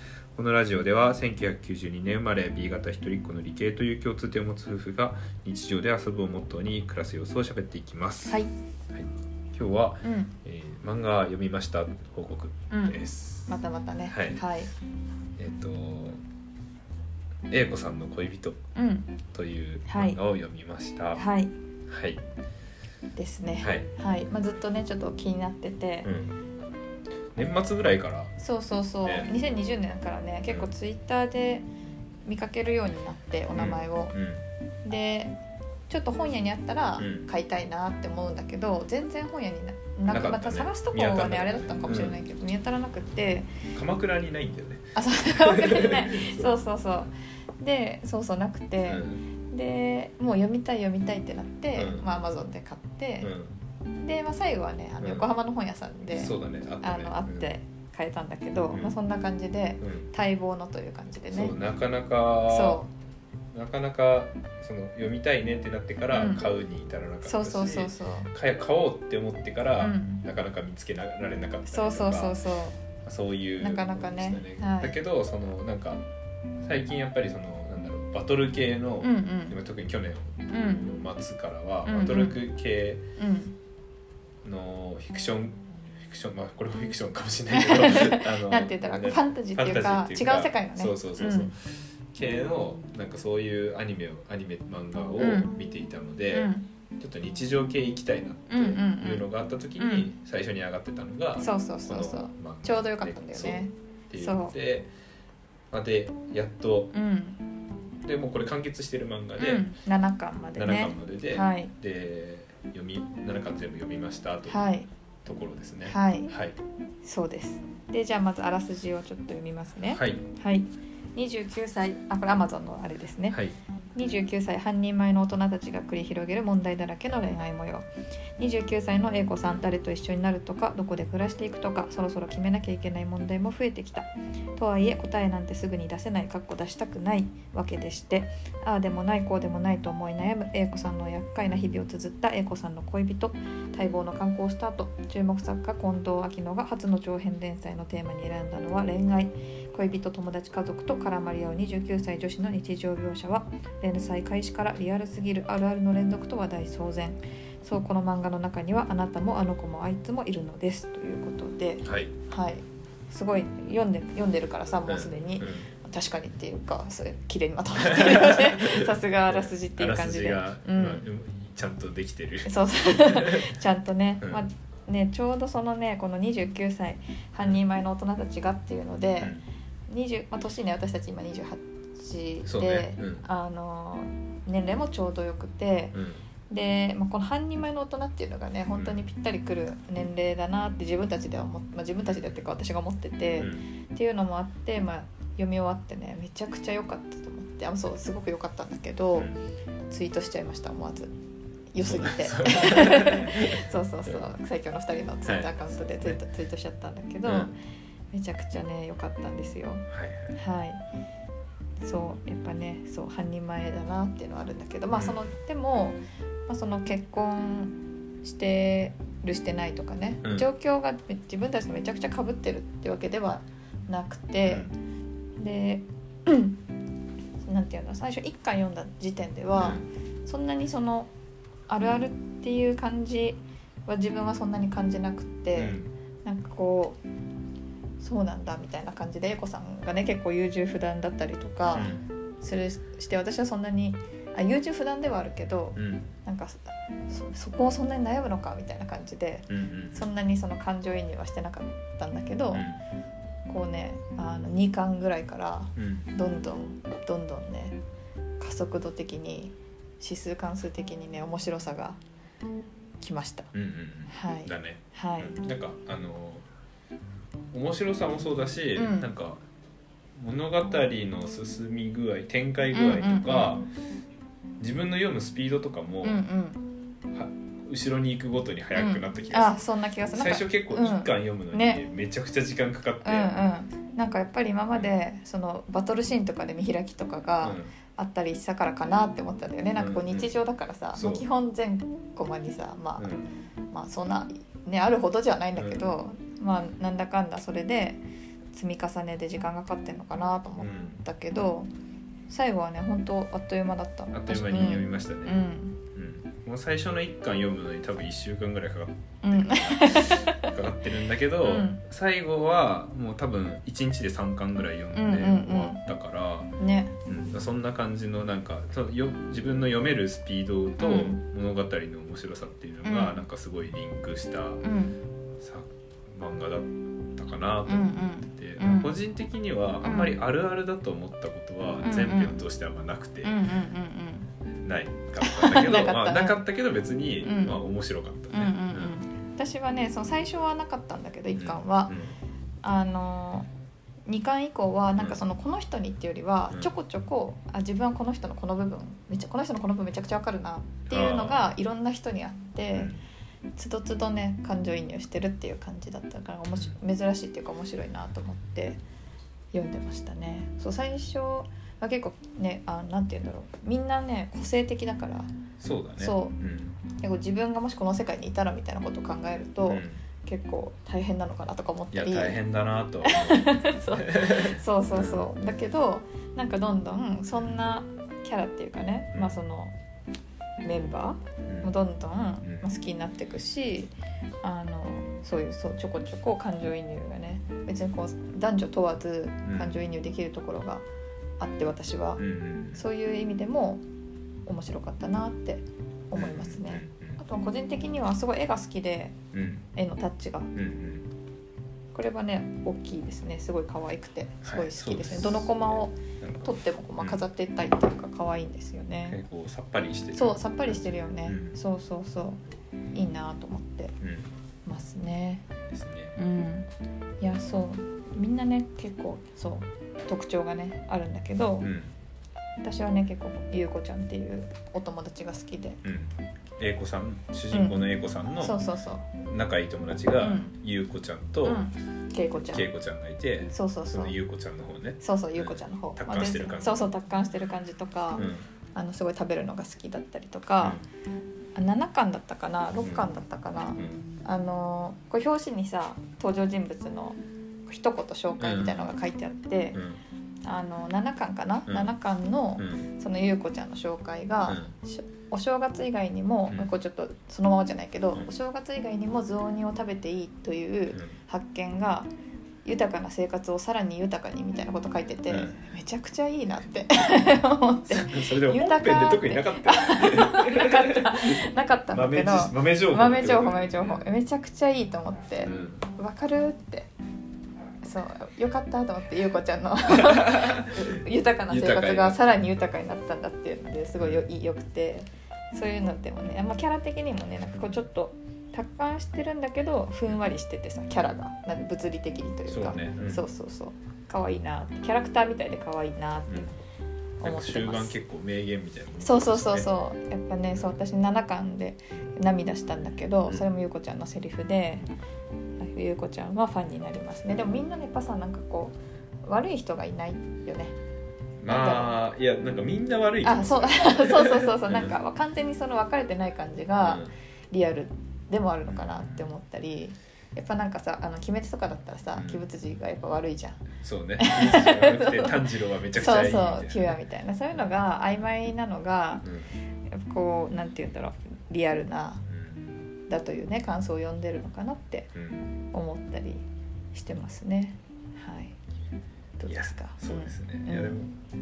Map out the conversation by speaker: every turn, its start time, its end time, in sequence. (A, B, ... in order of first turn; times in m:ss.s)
0:00.3-0:08.4 A
0:08.2-0:08.5 B
0:08.9-0:14.4 A
0:10.0-0:10.4 B
0:12.7-0:14.7 B
0:15.4-0:16.2 A
0:17.5-0:18.6 A
0:18.7-0:19.2 B
0:19.3-0:21.2 A
0:19.9-0:20.2 B
0:21.1-0:21.5 B
0:21.9-0:22.2 A
0:23.2-0:26.1 B
0:23.6-0:23.9 A
0:26.0-0:26.4 A
0:27.3-0:28.3 A
0:28.4-0:31.6 B
0:29.0-0:29.3 A
0:32.2-0:34.2 B
0:33.5-0:34.4 A
0:34.8-0:35.4 B
0:35.9-0:43.5 B
0:37.0-0:37.3 A
0:40.1-0:42.2 A
0:43.7-0:46.5 A
0:45.0-0:53.3 B
0:48.9-0:49.2 A
0:51.8-0:52.0 A
0:53.2-0:53.6 A
0:54.0-1:01.6 B
0:55.0-0:55.3 A
0:56.1-0:57.5 A
0:58.7-0:59.0 A
0:59.8-1:00.1 A
1:01.3-1:02.8 A
1:02.5-1:02.9 B
1:03.5-1:12.3 A
1:06.1-1:06.4 B
1:07.2-1:08.3 B
1:09.8-1:10.2 B
1:11.7-1:12.8 B
1:13.0-1:16.0 A
1:13.6-1:15.0 B
1:16.6-1:23.0 A
1:19.0-1:19.6 B
1:20.5-1:20.9 B
1:21.8-1:22.4 B
1:23.2-1:23.6 B
1:24.4-1:44.9 A
1:27.5-1:31.5 B
1:35.2-1:35.5 B
1:36.3-1:36.7 B
1:38.5-1:39.3 B
1:39.8-1:40.1 B
1:41.4-1:44.5 B
1:45.7-1:46.9 A
1:46.9-1:47.4 B
1:48.0-1:49.7 A
1:49.4-1:51.7 B
1:50.6-1:54.6 A
1:54.5-1:54.9 B
1:55.2-1:56.6 A
1:55.8-1:56.3 B
1:57.0-2:03.4 B
1:59.9-2:00.2 A
2:03.3-2:03.6 A
2:03.9-2:51.0 B
2:41.8-2:42.1 A
2:44.9-2:45.7 A
2:47.8-2:53.6 A
2:52.4-2:59.4 B
2:59.9-3:19.3 B
3:02.4-3:03.2 A
3:05.9-3:06.2 A
3:08.8-3:09.0 A
3:13.4-3:13.6 A
3:19.9-3:21.1 B
3:21.7-3:27.5 B
3:21.8-3:23.7 A
3:25.2-3:26.2 A
3:27.2-3:27.5 A
3:28.1-3:30.8 B
3:29.9-3:30.3 A
3:31.8-3:44.7 B
3:34.9-3:35.2 A
3:44.5-3:44.7 A
3:45.4-3:46.6 B
3:47.4-3:51.1 B
3:49.6-3:49.9 A
3:51.7-3:57.0 B
3:55.6-3:55.9 A
3:58.0-4:12.7 B
4:01.7-4:02.0 A
4:05.8-4:06.1 A
4:09.5-4:10.1 A
4:12.5-4:12.8 A
4:13.5-4:17.8 B
4:15.8-4:16.1 A
4:18.4-4:22.0 B
4:23.0-4:23.5 B
4:23.5-4:26.4 A
4:24.1-4:25.4 B
4:27.5-4:29.4 A
4:28.8-4:29.1 B
4:30.2-4:33.6 A
4:32.7-4:33.6 B
4:34.6-4:36.2 A
4:36.0-4:36.6 B
4:37.1-4:39.6 A
4:38.8-4:41.8 B
4:40.1-4:43.4 A
4:43.0-4:53.2 B
4:47.4-4:47.7 A
4:49.8-4:50.3 A
4:50.9-4:51.2 A
4:53.0-4:53.3 A
4:53.7-5:01.7 B
4:55.6-4:55.9 A
5:00.6-5:01.0 A
5:02.3-5:05.8 B
5:04.1-5:05.4 A
5:05.9-5:16.5 A
5:09.2-5:10.5 B
5:11.4-5:11.8 B
5:14.9-5:15.8 B
5:16.6-5:17.0 B
5:17.0-5:24.6 A
5:20.8-5:21.2 B
5:22.8-5:23.2 B
5:24.6-5:25.0 B
5:25.4-5:33.4 A
5:27.6-5:29.0 B
5:29.8-5:30.2 B
5:31.8-5:32.4 B
5:33.2-5:34.3 B
5:34.6-5:39.0 A
5:35.2-5:36.4 B
5:37.2-5:37.6 B
5:38.3-5:42.0 B
5:41.3-5:42.2 A
5:42.6-5:43.5 B
5:44.1-5:52.9 B
5:50.9-5:51.5 A
5:52.7-5:53.0 A
5:53.6-5:58.8 B
5:59.5-6:05.3 B
6:05.6-6:06.8 A
6:06.0-6:06.4 B
6:07.0-6:12.4 B
6:09.6-6:10.0 A
6:11.9-6:15.3 A
6:13.0-6:19.8 B
6:20.6-6:30.8 B
6:21.4-6:21.7 A
6:29.4-6:29.8 A
6:31.4-6:33.8 B
6:32.2-6:32.8 A
6:34.4-6:39.2 B
6:36.1-6:37.2 A
6:39.3-6:39.6 A
6:39.7-6:40.5 B
6:40.5-6:41.1 A
6:41.9-6:49.2 B
6:44.4-6:47.2 A
6:49.0-6:51.6 A
6:50.1-6:52.4 B
6:52.9-6:53.9 B
6:54.0-6:54.3 A
6:54.6-6:55.4 B
6:55.7-6:56.2 A
6:56.2-6:56.7 B
6:57.2-7:01.7 B
7:01.6-7:01.9 A
7:02.6-7:05.8 B
7:05.8-7:08.6 A
7:07.5-7:09.1 B
7:09.2-7:11.6 A
7:10.2-7:10.5 B
7:11.4-7:12.6 B
7:12.5-7:16.9 A
7:13.5-7:14.1 B
7:15.0-7:20.8 B
7:18.2-7:18.4 A
7:20.6-7:20.9 A
7:21.5-7:29.8 B
7:22.8-7:23.1 A
7:23.8-7:24.0 A
7:28.4-7:28.9 A
7:29.7-7:30.0 A
7:30.4-7:42.1 B
7:32.6-7:32.9 A
7:34.4-7:34.7 A
7:42.6-7:56.9 B
7:45.3-7:45.6 A
7:47.9-7:51.3 A
7:51.9-7:54.1 A
7:55.4-7:55.8 A
7:57.8-8:16.6 B
7:59.9-8:01.0 A
8:01.5-8:02.3 A
8:04.0-8:04.2 A
8:12.5-8:13.2 A
8:17.2-8:18.0 B
8:17.2-8:19.7 A
8:19.0-8:24.9 B
8:25.6-8:30.7 B
8:31.4-8:35.0 A
8:31.4-8:32.0 B
8:33.2-8:43.7 B
8:36.8-8:37.1 A
8:38.7-8:39.3 A
8:42.1-8:42.4 A
8:43.8-8:47.0 A
8:44.2-8:49.3 B
8:49.2-8:49.5 A
8:49.9-8:52.2 B
8:52.2-8:52.9 A
8:53.1-8:55.1 B
8:55.1-8:55.5 A
8:55.7-8:58.6 B
8:59.4-9:01.0 B
8:59.5-9:01.1 A